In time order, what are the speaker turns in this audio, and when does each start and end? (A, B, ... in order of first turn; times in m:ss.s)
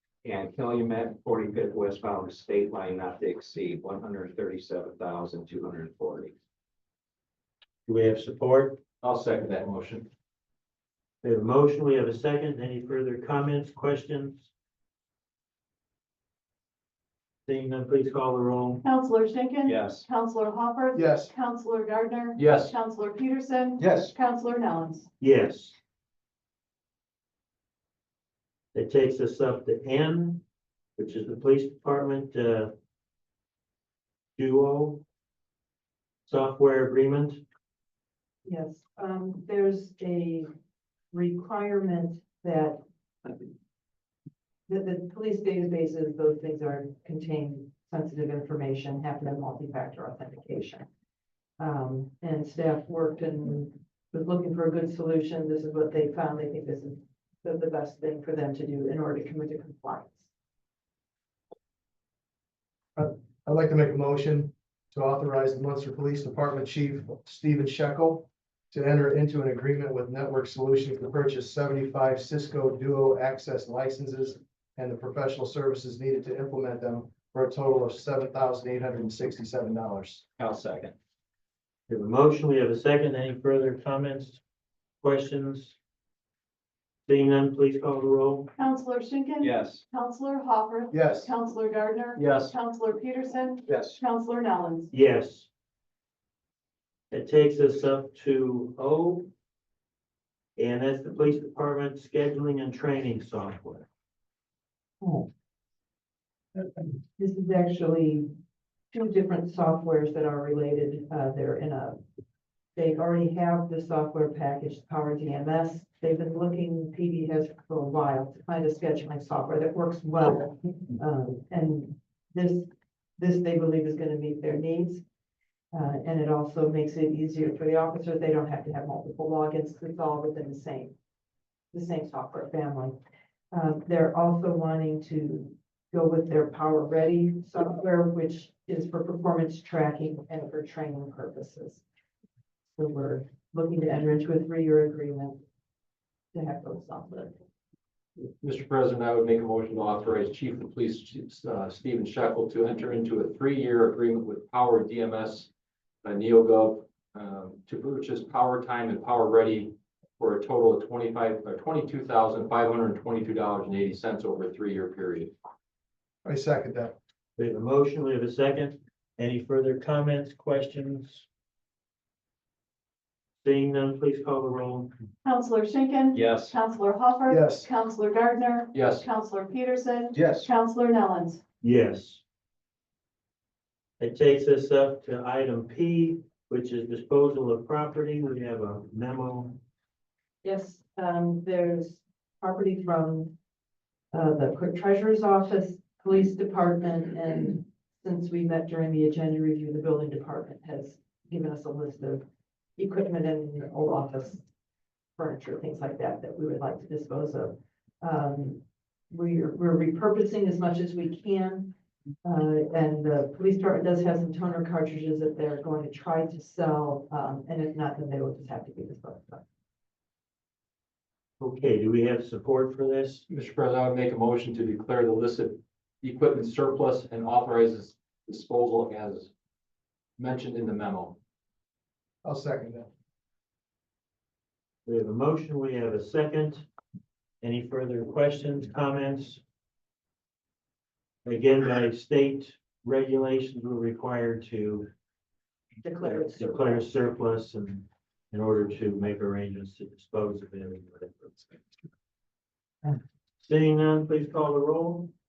0:00.2-0:06.3 A
0:07.9-0:08.8 B
0:09.0-0:10.1 C
0:11.2-0:14.5 B
0:17.4-0:18.8 B
0:18.8-0:25.1 D
0:19.6-0:20.0 A
0:20.9-0:21.3 E
0:22.4-0:22.7 C
0:23.8-0:24.1 E
0:25.2-0:25.8 B
0:28.7-0:30.4 B
0:31.0-0:32.7 B
0:34.4-0:35.0 B
0:36.3-0:37.4 B
0:38.4-0:40.5 F
0:41.1-0:43.3 F
0:44.7-0:50.8 F
0:51.6-1:00.2 F
1:03.0-1:20.2 E
1:20.4-1:20.9 A
1:21.9-1:24.4 B
1:25.0-1:25.8 B
1:27.1-1:28.5 B
1:28.6-1:34.9 D
1:29.4-1:29.8 A
1:30.9-1:31.3 E
1:32.2-1:32.5 C
1:34.9-1:35.5 B
1:37.1-1:39.3 B
1:40.6-1:43.9 B
1:45.0-1:45.3 F
1:47.2-1:48.3 F
1:48.9-1:52.0 F
1:52.8-2:02.7 F
2:03.2-2:05.0 F
2:05.7-2:10.9 F
2:11.7-2:13.0 F
2:13.5-2:21.8 F
2:22.8-2:25.4 F
2:26.3-2:27.3 F
2:28.4-2:35.5 C
2:36.0-2:45.3 C
2:46.2-2:46.9 E
2:47.4-2:51.2 B
2:53.4-2:54.9 B
2:55.2-3:01.4 D
2:57.3-2:57.7 E
2:58.7-2:59.1 C
3:00.1-3:00.5 E
3:01.6-3:02.2 B
3:04.0-3:09.6 B
3:10.4-3:13.3 F
3:14.1-3:22.2 F
3:22.8-3:24.4 F
3:25.2-3:31.7 F
3:32.2-3:39.4 F
3:41.4-3:43.2 B
3:43.3-3:49.3 C
3:50.2-3:51.2 C
3:52.2-3:52.9 E
3:54.8-3:56.7 B
3:57.4-3:59.4 B
4:01.2-4:04.9 B
4:05.8-4:06.9 F
4:06.0-4:11.6 B
4:13.4-4:15.1 B